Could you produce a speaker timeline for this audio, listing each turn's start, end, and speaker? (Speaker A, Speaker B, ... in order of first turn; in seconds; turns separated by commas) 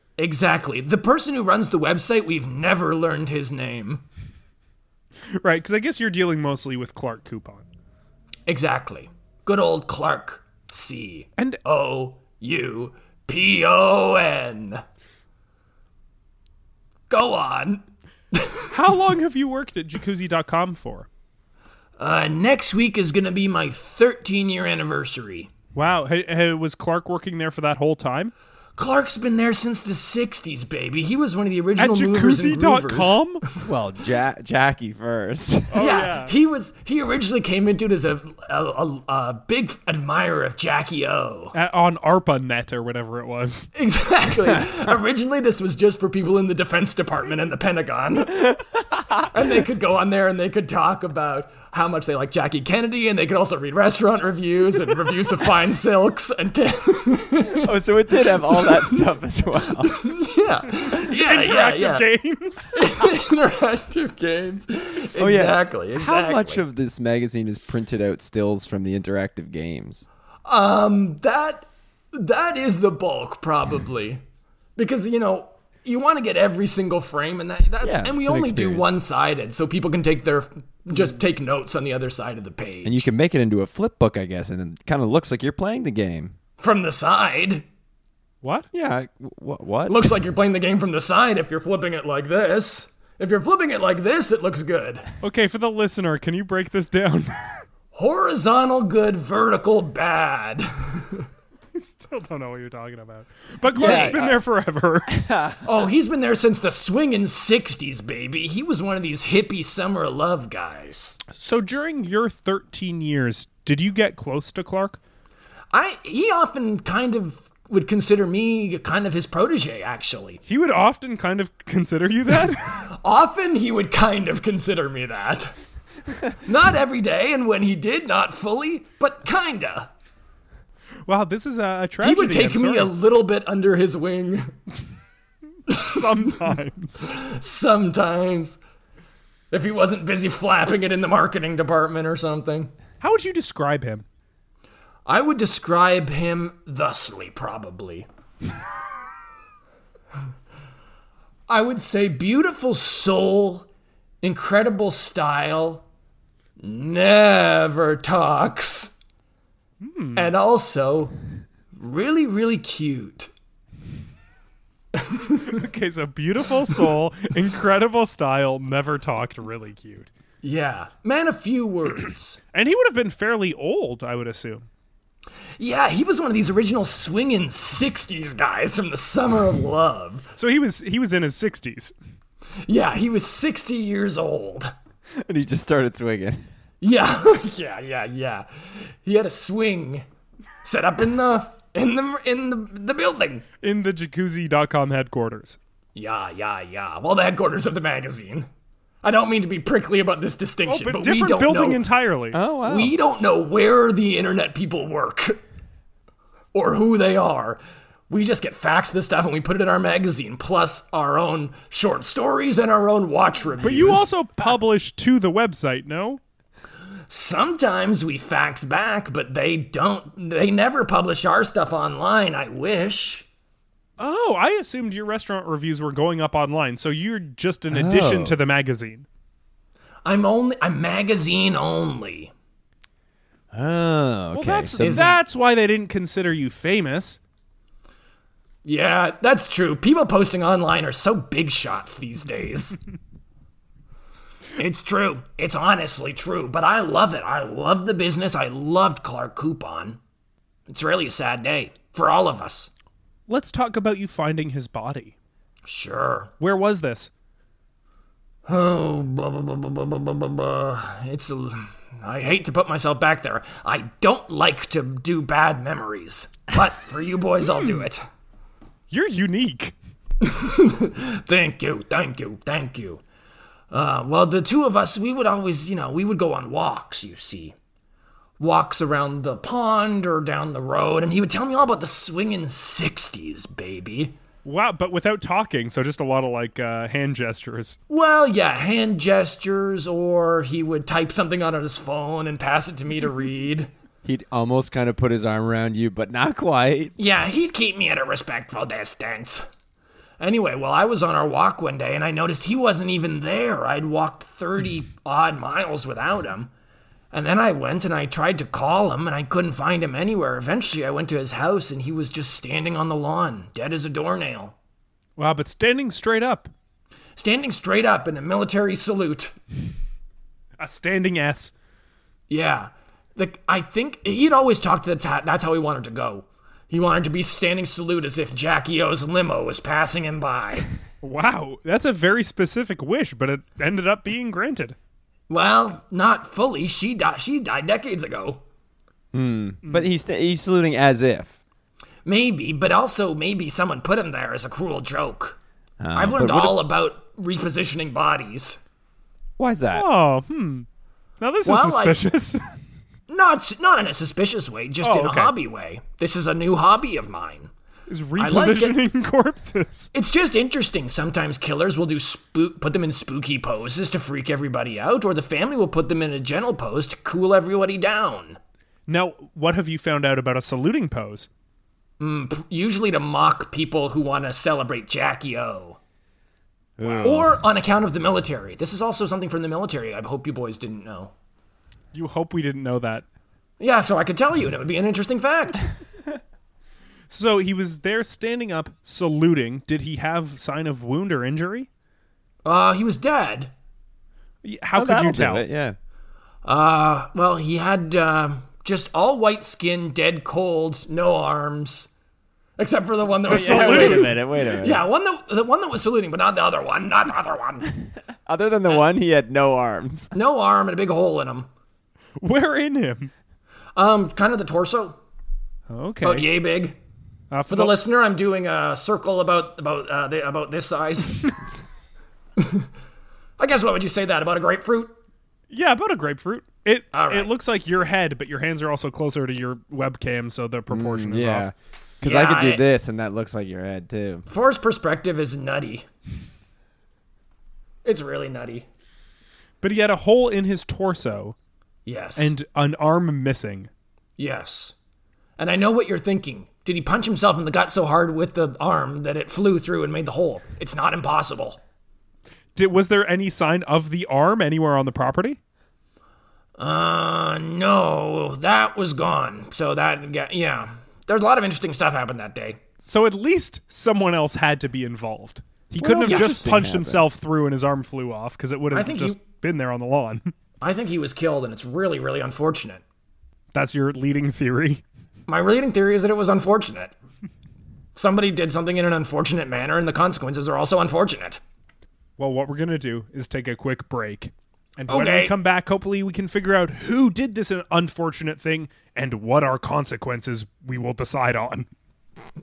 Speaker A: 0.2-4.0, Speaker B: 5.4-7.7, Speaker A: 8.5-14.8, Speaker A: 17.1-18.7, Speaker B: 18.7-21.1, Speaker A: 22.0-25.5, Speaker B: 25.8-28.3, Speaker A: 28.8-33.2, Speaker B: 31.8-33.4, Speaker C: 33.6-35.9, Speaker B: 35.7-36.4, Speaker A: 35.8-41.5, Speaker B: 41.5-43.7, Speaker A: 43.8-48.6, Speaker A: 49.2-57.7, Speaker C: 57.5-60.1, Speaker A: 59.8-62.0, Speaker B: 60.9-62.9, Speaker A: 62.8-66.6, Speaker C: 65.2-70.1, Speaker A: 70.5-74.2, Speaker A: 74.8-83.1, Speaker C: 77.8-79.0, Speaker C: 82.8-86.4, Speaker A: 86.6-87.7, Speaker B: 88.4-88.7, Speaker C: 88.7-90.1, Speaker A: 89.9-95.1, Speaker B: 95.2-97.6, Speaker A: 97.9-101.3, Speaker B: 101.7-105.2, Speaker C: 103.7-104.4, Speaker A: 103.8-104.3, Speaker C: 105.1-105.6, Speaker A: 105.6-111.2, Speaker B: 111.3-115.0, Speaker A: 115.7-120.4, Speaker B: 120.5-122.8, Speaker A: 122.8-125.5, Speaker A: 126.4-129.9, Speaker B: 131.1-132.9, Speaker A: 132.0-134.5, Speaker A: 135.7-136.0, Speaker B: 135.8-137.1, Speaker A: 137.1-138.6, Speaker A: 139.5-142.7, Speaker B: 143.0-144.1, Speaker A: 145.1-148.1, Speaker A: 151.5-153.7, Speaker A: 154.2-155.8, Speaker A: 156.6-159.0, Speaker B: 159.8-160.3, Speaker A: 160.2-161.1, Speaker A: 161.8-163.3, Speaker A: 164.9-165.6, Speaker B: 165.5-170.1, Speaker A: 170.4-172.4, Speaker B: 172.5-174.7, Speaker A: 175.6-180.3, Speaker B: 180.4-181.9, Speaker A: 182.7-184.7, Speaker C: 185.2-186.5, Speaker A: 186.8-190.1, Speaker A: 190.6-193.4, Speaker B: 193.6-195.6, Speaker A: 195.9-198.5, Speaker A: 199.0-201.8, Speaker B: 200.7-202.4, Speaker C: 202.3-203.0, Speaker A: 202.6-205.4, Speaker A: 206.5-214.1, Speaker B: 213.6-216.2, Speaker A: 217.1-223.3, Speaker B: 224.0-229.1, Speaker C: 227.7-228.4, Speaker A: 230.1-232.3, Speaker C: 233.5-235.1, Speaker B: 234.3-237.2, Speaker A: 234.8-235.2, Speaker A: 238.6-242.8, Speaker A: 244.6-250.0, Speaker A: 250.7-252.7, Speaker B: 253.3-255.2, Speaker A: 255.7-256.3, Speaker B: 256.4-257.1, Speaker A: 258.5-268.1, Speaker B: 268.9-269.8, Speaker A: 270.2-273.0, Speaker A: 273.7-277.6, Speaker A: 278.4-284.1, Speaker B: 284.4-287.8, Speaker A: 287.9-293.7, Speaker C: 294.1-296.9, Speaker A: 297.0-299.5, Speaker A: 300.2-306.5, Speaker A: 307.1-314.5, Speaker B: 315.2-316.5, Speaker A: 317.2-319.4, Speaker B: 320.6-321.5, Speaker A: 322.3-330.7, Speaker B: 331.0-334.8, Speaker A: 335.3-338.4, Speaker C: 339.1-341.4, Speaker B: 339.6-339.9, Speaker A: 342.1-345.4, Speaker C: 345.8-346.6, Speaker A: 345.9-348.6, Speaker C: 349.4-349.9, Speaker B: 349.7-350.7, Speaker B: 351.2-352.4, Speaker A: 351.4-352.0, Speaker A: 353.1-357.5, Speaker B: 354.8-355.4, Speaker B: 357.9-359.9, Speaker A: 358.2-358.8, Speaker A: 359.9-368.4, Speaker B: 368.9-371.3, Speaker A: 372.0-375.8, Speaker C: 376.8-377.4, Speaker B: 376.8-377.3, Speaker A: 377.0-381.1, Speaker B: 381.9-383.1, Speaker A: 383.6-385.7, Speaker B: 387.1-391.7, Speaker A: 392.4-393.5, Speaker B: 394.4-395.4, Speaker C: 394.8-395.8, Speaker A: 396.4-401.9, Speaker A: 402.6-407.8, Speaker B: 403.2-404.2, Speaker C: 403.3-404.8, Speaker C: 408.2-410.1, Speaker A: 410.1-411.5, Speaker B: 412.2-413.1, Speaker A: 413.8-415.0, Speaker B: 415.7-416.3, Speaker A: 416.0-416.8, Speaker B: 417.3-417.8, Speaker A: 417.5-421.3, Speaker A: 422.4-422.7, Speaker A: 423.4-425.0, Speaker B: 425.5-431.5, Speaker A: 426.9-427.3, Speaker C: 430.7-434.3, Speaker A: 432.0-432.6, Speaker A: 434.3-435.9, Speaker A: 437.8-438.7, Speaker B: 439.6-441.4, Speaker A: 441.9-442.3, Speaker B: 442.2-443.7, Speaker A: 444.2-444.8, Speaker A: 445.4-451.6, Speaker B: 452.6-455.4, Speaker A: 456.6-462.6, Speaker B: 462.8-470.3, Speaker C: 465.8-467.1, Speaker A: 466.0-466.5, Speaker A: 468.7-469.2, Speaker A: 470.6-472.8, Speaker B: 473.5-474.8, Speaker A: 475.3-476.9, Speaker A: 478.0-481.4, Speaker B: 482.2-491.7, Speaker A: 484.9-485.4